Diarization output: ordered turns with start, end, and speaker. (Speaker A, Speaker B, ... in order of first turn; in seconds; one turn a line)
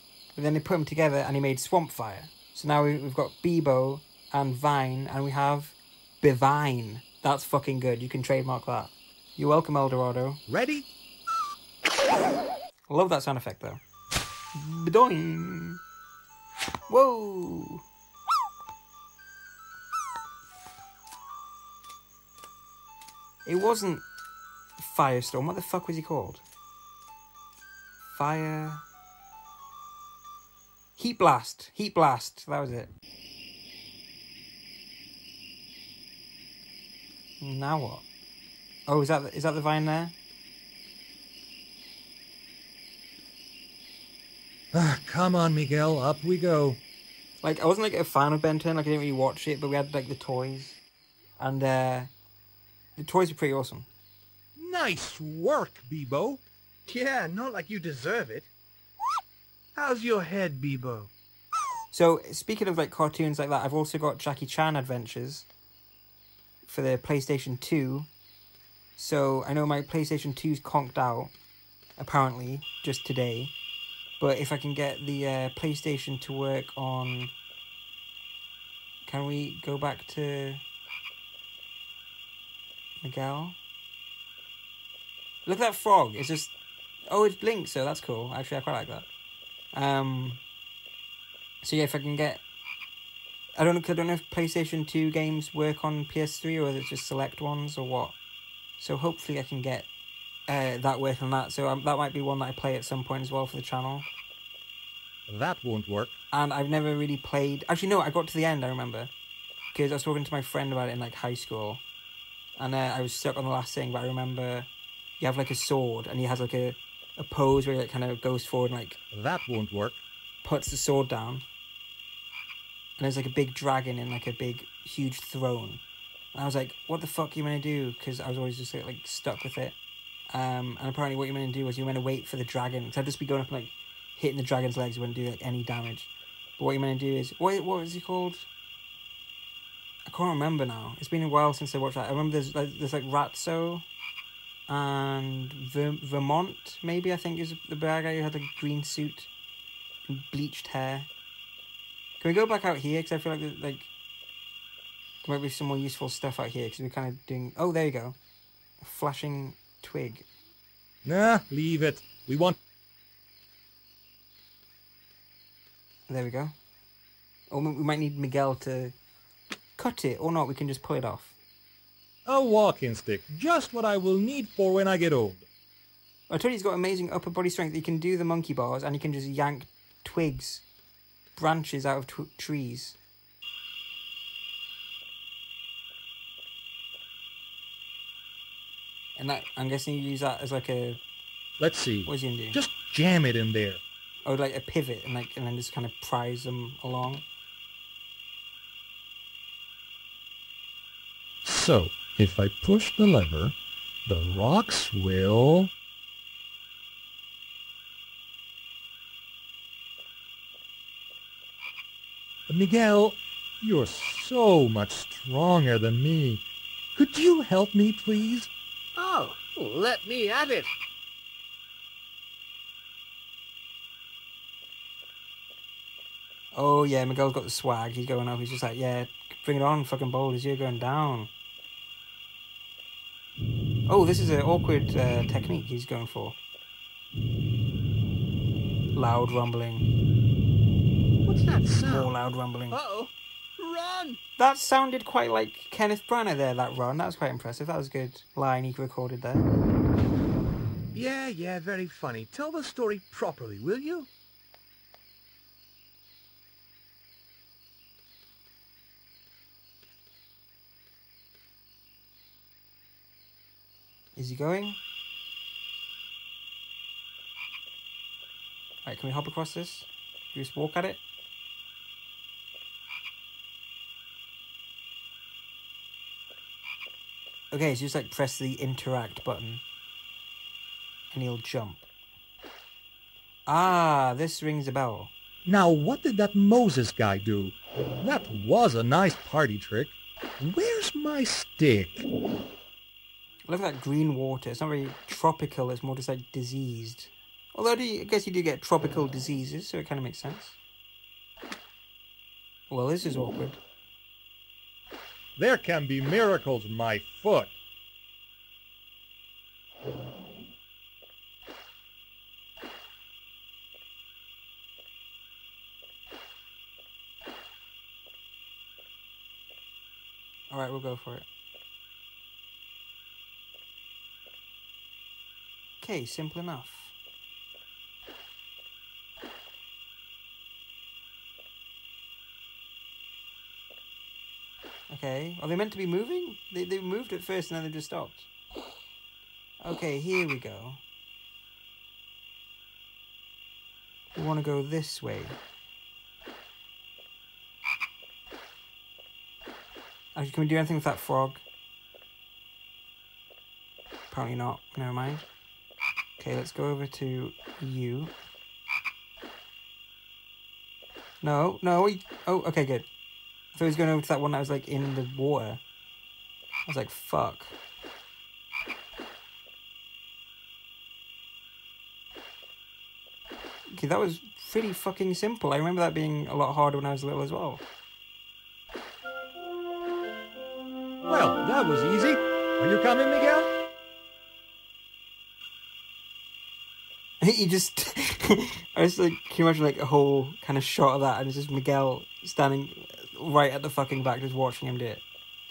Speaker A: 0.3-10.4
Speaker B: 10.5-10.9
Speaker A: 12.9-13.8
Speaker A: 14.5-15.8
Speaker A: 16.9-17.8
Speaker A: 23.4-24.0
Speaker A: 24.8-26.4
Speaker A: 28.0-28.8
Speaker A: 31.0-32.9
Speaker A: 37.4-38.0
Speaker A: 38.9-40.1
Speaker B: 44.7-46.8
Speaker A: 47.4-50.8
Speaker A: 51.4-52.1
Speaker A: 53.0-53.9
Speaker B: 54.6-56.4
Speaker C: 56.9-58.5
Speaker C: 59.7-61.1
Speaker A: 61.9-65.5
Speaker A: 66.7-68.1
Speaker A: 69.0-71.3
Speaker A: 72.0-73.5
Speaker A: 74.2-77.3
Speaker A: 79.0-80.6
Speaker A: 83.0-83.6
Speaker A: 85.5-86.5
Speaker A: 87.1-89.1
Speaker A: 89.7-90.4
Speaker A: 91.6-92.4
Speaker A: 93.6-98.2
Speaker A: 98.8-99.9
Speaker A: 100.5-104.1
Speaker B: 105.3-106.1
Speaker A: 106.3-109.1
Speaker A: 109.7-111.8
Speaker A: 112.6-119.0
Speaker B: 119.1-120.0
Speaker A: 120.4-121.4
Speaker A: 123.0-125.8
Speaker A: 126.3-129.8
Speaker A: 130.3-138.5
Speaker A: 140.1-143.8
Speaker A: 144.7-149.3
Speaker A: 150.1-151.1
Speaker A: 152.2-153.9
Speaker A: 155.2-158.2
Speaker A: 158.8-160.2
Speaker B: 161.0-162.6
Speaker A: 166.1-166.5
Speaker A: 167.5-168.9
Speaker A: 169.8-171.3
Speaker B: 172.2-175.4
Speaker A: 176.3-180.6
Speaker A: 181.3-183.0
Speaker A: 189.2-191.0
Speaker B: 191.6-193.8
Speaker A: 192.1-192.6
Speaker A: 194.2-197.2
Speaker B: 201.4-203.5
Speaker B: 204.1-205.7
Speaker B: 212.5-216.4
Speaker B: 216.9-218.5
Speaker C: 218.9-220.7
Speaker A: 226.5-231.3
Speaker A: 233.9-236.4
Speaker A: 238.9-239.9
Speaker C: 241.2-242.1
Speaker A: 241.8-242.8
Speaker C: 242.7-244.2
Speaker A: 244.4-249.5
Speaker C: 250.9-254.1
Speaker A: 264.1-264.8
Speaker A: 268.8-271.0
Speaker A: 277.5-279.6
Speaker A: 281.1-281.8
Speaker A: 283.5-285.1
Speaker B: 285.4-292.0
Speaker A: 293.5-300.6
Speaker A: 302.7-303.6
Speaker B: 305.4-307.5
Speaker A: 320.5-321.2
Speaker A: 325.8-326.9
Speaker A: 334.9-338.3
Speaker A: 339.6-340.8
Speaker A: 344.1-345.4
Speaker A: 350.1-351.4
Speaker A: 354.1-355.3
Speaker A: 356.2-358.1
Speaker A: 361.2-362.9
Speaker A: 363.5-365.6
Speaker A: 366.6-367.5
Speaker A: 373.7-377.6
Speaker B: 381.1-383.5
Speaker A: 387.2-395.0